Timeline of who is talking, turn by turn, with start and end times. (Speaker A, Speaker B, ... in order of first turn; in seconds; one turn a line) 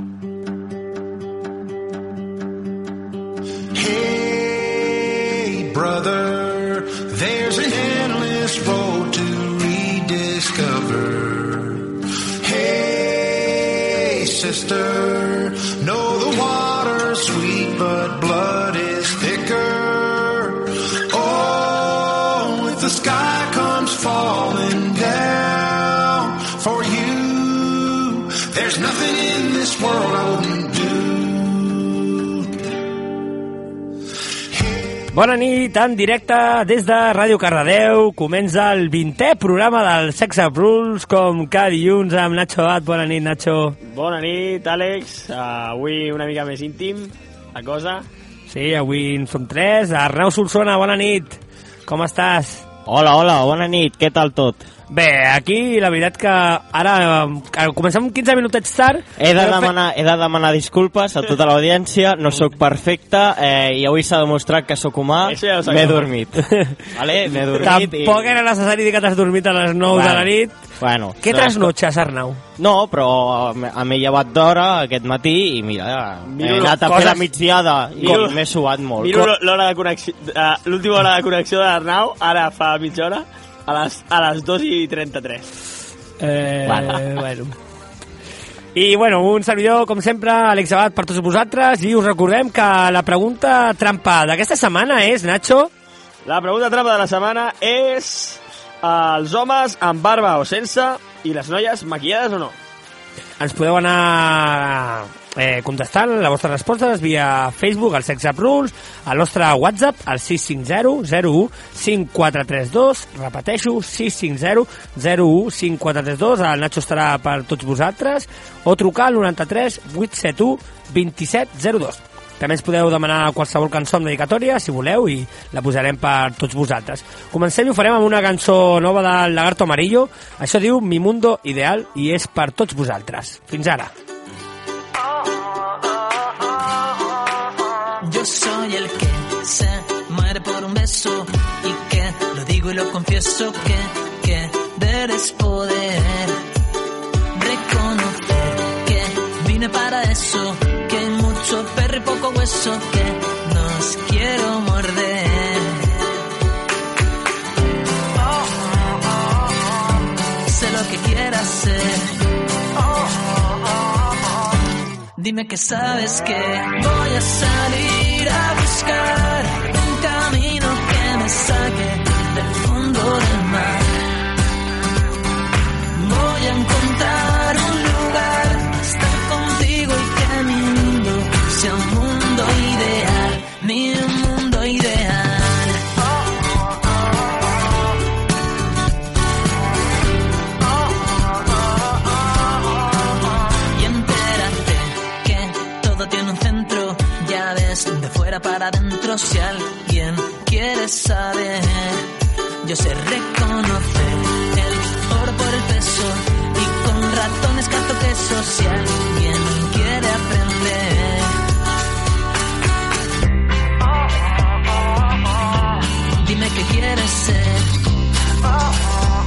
Speaker A: 3.7-11.8
Speaker A: 12.4-32.2
Speaker B: 35.1-43.8
Speaker C: 43.8-48.0
Speaker B: 48.5-52.6
Speaker D: 52.9-54.6
Speaker B: 54.9-59.7
Speaker D: 59.2-68.3
Speaker C: 65.2-66.1
Speaker B: 67.6-70.5
Speaker D: 69.9-71.7
Speaker B: 71.2-72.4
Speaker D: 72.6-79.3
Speaker C: 76.3-76.8
Speaker B: 76.6-77.3
Speaker B: 78.0-78.3
Speaker C: 78.0-78.4
Speaker C: 79.0-85.5
Speaker B: 86.2-87.5
Speaker D: 86.7-87.0
Speaker B: 88.7-95.7
Speaker C: 96.2-102.6
Speaker B: 103.4-133.9
Speaker E: 138.0-146.4
Speaker E: 147.3-156.1
Speaker E: 160.4-162.2
Speaker E: 165.2-173.9
Speaker E: 175.9-185.8
Speaker E: 193.7-202.1
Speaker E: 202.6-211.4
Speaker E: 216.2-217.8